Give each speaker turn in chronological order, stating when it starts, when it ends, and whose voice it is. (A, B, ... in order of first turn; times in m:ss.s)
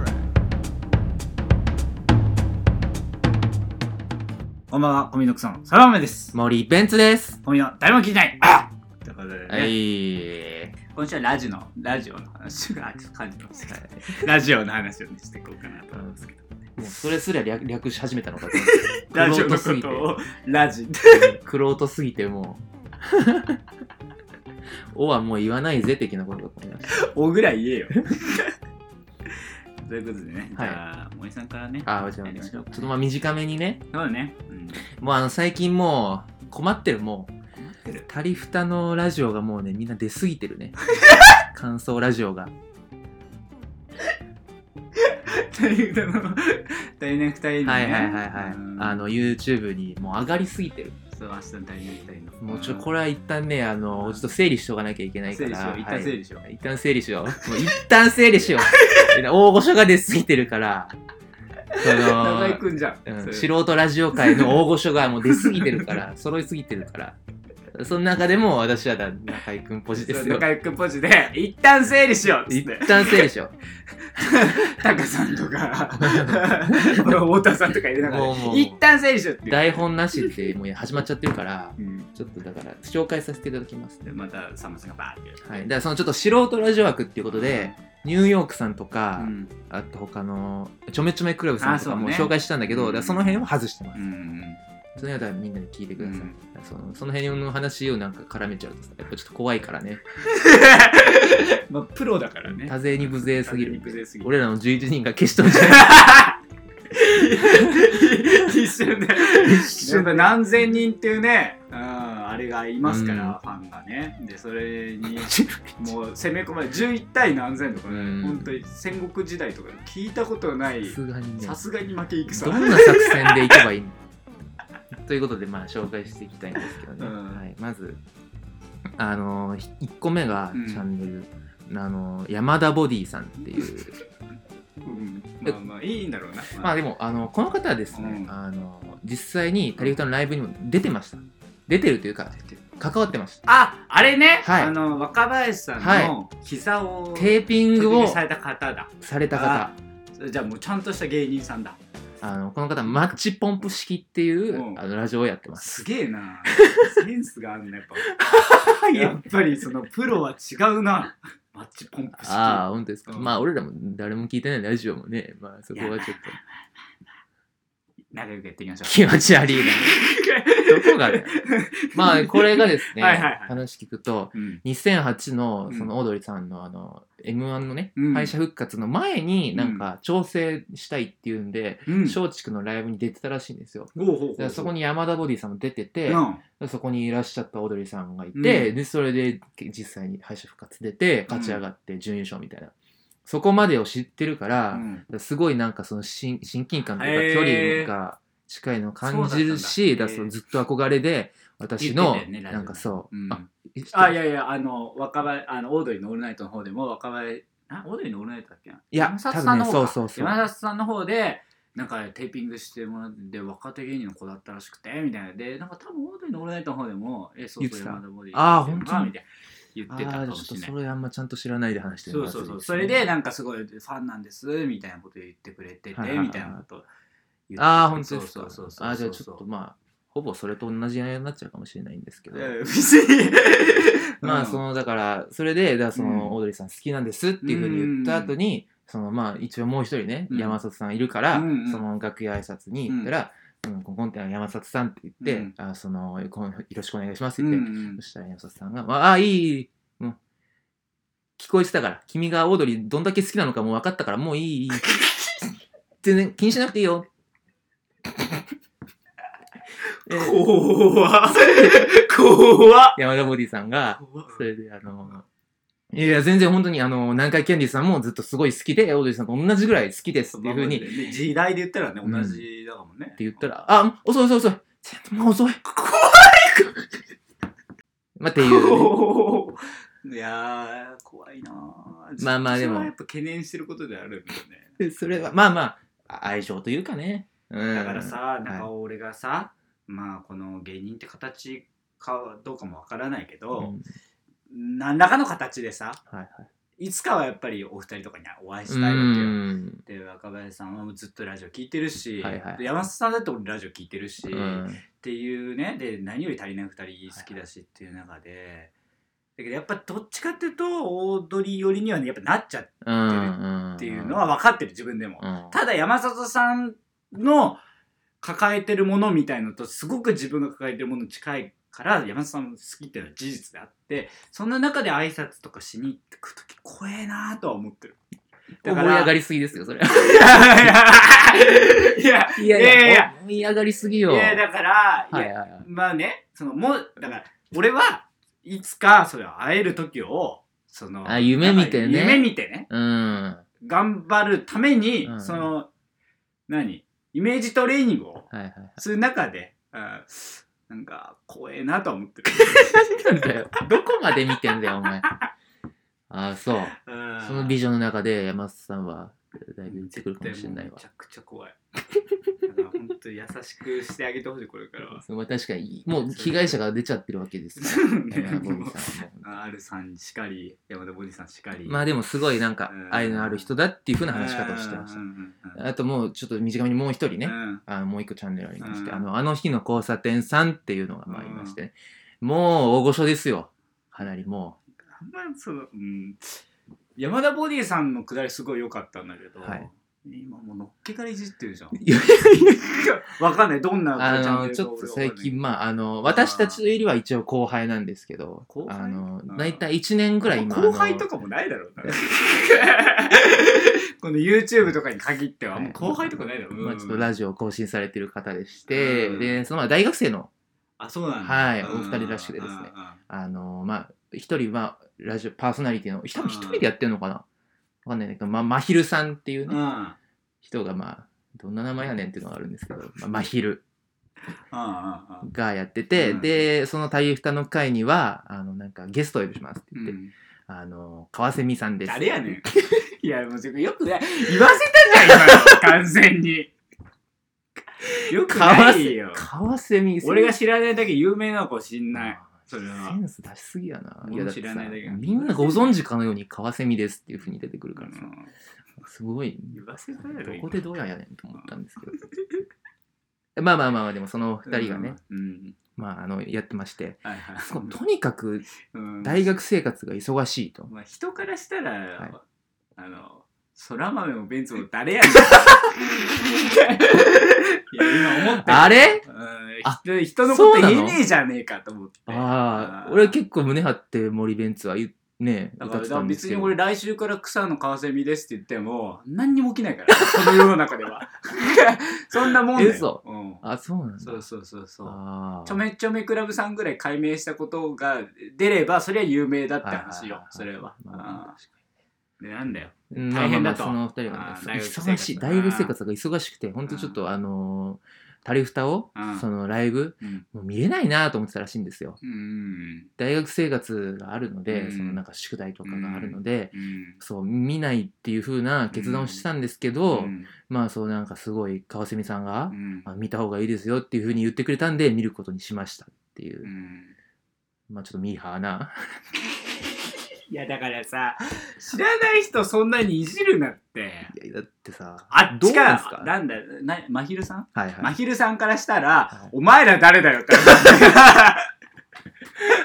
0:04.7-0:06.4 A
0:06.3-0:07.4 B
0:07.4-0:09.8 A
0:09.5-0:10.7 B
0:10.9-0:16.4 A
0:13.7-0:14.3 B
0:15.9-0:20.1 B
0:18.5-0:21.4 A
0:21.1-0:23.6 B
0:24.9-0:26.9 B
0:26.9-0:28.5 A
0:29.8-0:32.9 A
0:30.6-0:30.8 B
0:31.9-0:33.8 B
0:33.9-0:34.8 A
0:34.9-0:37.3 B
0:37.7-0:38.1 A
0:38.1-0:40.8 B
0:41.0-0:41.4 A
0:41.5-0:42.5 B
0:45.1-0:49.1 A
0:47.6-0:51.0 B
0:51.1-0:52.9 A
0:52.4-1:00.9 B
0:53.9-0:54.2 A
0:55.3-0:56.4 A
0:58.4-0:59.1 A
1:01.8-1:03.5 A
1:01.8-1:07.2 B
1:04.2-1:04.5 A
1:05.4-1:05.9 A
1:07.7-1:10.5 B
1:10.0-1:13.3 A
1:12.5-1:13.5 B
1:14.2-1:20.3 A
1:16.0-1:17.2 B
1:18.0-1:18.8 B
1:19.5-1:24.2 B
1:21.8-1:22.1 A
1:24.0-1:25.6 A
1:25.4-1:34.0 B
1:27.4-1:27.8 A
1:29.2-1:29.5 A
1:31.6-1:34.6 A
1:35.0-1:40.0 B
1:36.0-1:36.4 A
1:40.3-1:44.3 A
1:42.6-1:45.9 B
1:45.4-1:46.4 A
1:46.9-2:03.6 A
1:49.3-1:50.3 B
1:52.8-1:53.4 B
1:55.2-1:56.0 B
1:57.9-1:58.6 B
2:00.8-2:01.6 B
2:02.3-2:04.0 B
2:05.0-2:08.0 B
2:07.0-2:07.4 A
2:09.0-2:14.0 B
2:10.5-2:10.9 A
2:14.8-2:16.8 A
2:16.6-2:23.5 B
2:17.9-2:18.3 A
2:23.5-2:31.8 A
2:24.4-2:24.7 B
2:25.8-2:26.2 B
2:27.2-2:28.2 B
2:29.0-2:29.8 B
2:32.2-2:35.7 B
2:34.5-2:34.8 A
2:35.6-2:43.3 A
2:36.6-2:36.9 B
2:38.2-2:39.2 B
2:42.2-2:46.4 B
2:45.7-2:46.6 A
2:48.1-2:49.0 A
2:48.8-2:49.9 B
2:49.8-2:53.6 A
2:50.6-3:12.7 B
2:54.4-2:54.6 A
2:58.0-2:58.3 A
2:59.5-2:59.8 A
3:01.9-3:02.2 A
3:04.0-3:04.7 A
3:06.1-3:06.4 A
3:08.4-3:08.7 A
3:11.3-3:11.6 A
3:13.3-3:24.2 B
3:14.7-3:15.0 A
3:17.0-3:17.9 A
3:19.0-3:20.3 A
3:21.8-3:40.7 A
3:28.9-3:30.5 B
3:37.6-3:39.1 B
3:39.9-3:43.1 B
3:42.1-3:46.9 A
3:46.0-3:46.6 B
3:47.5-3:49.4 A
3:47.6-3:52.6 B
3:52.3-3:54.6 A
3:54.2-4:10.2 B
3:56.0-3:56.3 A
3:57.4-3:58.3 A
4:00.3-4:00.6 A
4:01.3-4:01.8 A
4:05.2-4:05.5 A
4:07.4-4:08.0 A
4:11.4-4:14.9 B
4:14.8-4:15.4 A
4:16.0-4:17.1 B
4:20.1-4:20.5 B
4:20.1-4:23.0 A
4:21.3-4:21.9 B
4:22.9-4:25.2 B
4:24.0-4:24.4 A
4:25.9-4:30.9 B
4:30.3-4:33.2 A
4:32.0-4:32.4 B
4:33.2-4:35.8 B
4:35.9-4:36.6 A
4:38.2-4:39.0 B
4:38.4-4:45.3 A
4:42.2-4:42.9 B
4:44.8-4:48.7 B
4:47.7-4:53.8 A
4:53.6-4:53.9 B
4:54.5-4:56.0 A
4:56.1-4:56.5 B
4:56.8-5:08.7 A
4:58.7-4:59.8 B
5:02.2-5:02.6 B
5:04.3-5:04.8 B
5:09.4-5:17.6 A
5:12.8-5:14.3 B
5:15.2-5:15.6 B
5:18.2-5:28.0 A
5:28.6-5:29.1 A
5:28.6-5:30.8 B
5:30.0-5:33.1 A
5:32.3-5:34.4 B
5:34.1-5:42.7 A
5:35.1-5:35.7 B
5:41.1-5:43.4 B
5:43.6-5:45.7 A
5:45.1-5:45.5 B
5:46.5-5:52.9 A
5:48.3-5:48.8 B
5:52.7-5:55.1 B
5:56.1-6:00.8 B
5:56.8-5:57.6 A
5:59.7-6:01.6 A
6:02.4-6:05.0 A
6:04.9-6:09.4 B
6:06.1-6:06.6 A
6:07.6-6:11.9 A
6:11.7-6:15.0 B
6:12.7-6:13.5 A
6:14.1-6:15.6 A
6:15.6-6:24.6 B
6:17.2-6:17.6 A
6:18.6-6:19.0 A
6:21.1-6:21.6 A
6:24.8-6:26.4 A
6:27.0-6:31.8 A
6:31.8-6:32.6 B
6:32.6-6:35.4 A
6:34.0-6:41.1 B
6:36.0-6:36.6 A
6:38.5-6:39.6 A
6:40.3-6:47.1 A
6:45.5-6:50.3 B
6:48.7-6:49.4 A
6:50.8-6:53.0 A
6:51.2-6:57.2 B
6:56.2-6:56.7 A
6:57.8-6:59.6 B
6:59.5-7:00.0 A
7:00.4-7:03.6 B
7:04.5-7:05.3 A
7:05.2-7:10.0 B
7:06.0-7:06.4 A
7:09.8-7:10.1 A
7:10.5-7:12.5 B
7:11.9-7:16.5 A
7:18.1-7:19.2 A
7:18.1-7:20.4 B
7:20.0-7:23.0 A
7:22.0-7:28.1 B
7:24.0-7:25.7 A
7:27.8-7:28.3 A
7:28.8-7:32.0 B
7:29.5-7:30.7 A
7:31.4-7:32.4 A
7:33.4-7:35.0 B
7:34.5-7:35.6 A
7:35.8-7:38.5 B
7:37.0-7:37.8 A
7:38.7-7:39.3 A
7:39.0-7:40.7 B
7:40.7-7:42.2 A
7:42.8-7:53.2 A
7:48.4-7:49.0 B
7:49.6-7:51.0 B
7:52.1-7:56.6 B
7:55.6-8:03.4 A
8:02.6-8:04.2 B
8:04.0-8:11.4 A
8:04.8-8:05.6 B
8:09.6-8:11.5 B
8:12.2-8:15.7 A
8:12.9-8:22.0 B
8:16.7-8:17.0 A
8:19.0-8:19.2 A
8:22.0-8:22.9 A
8:23.0-8:36.5 B
8:24.5-8:25.0 A
8:25.6-8:27.0 A
8:28.7-8:29.2 A
8:29.9-8:30.3 A
8:32.5-8:32.9 A
8:36.4-8:36.9 A
8:37.7-8:38.8 B
8:40.3-8:44.1 A
8:44.1-8:46.1 B
8:45.1-8:51.5 A
8:47.6-8:47.9 B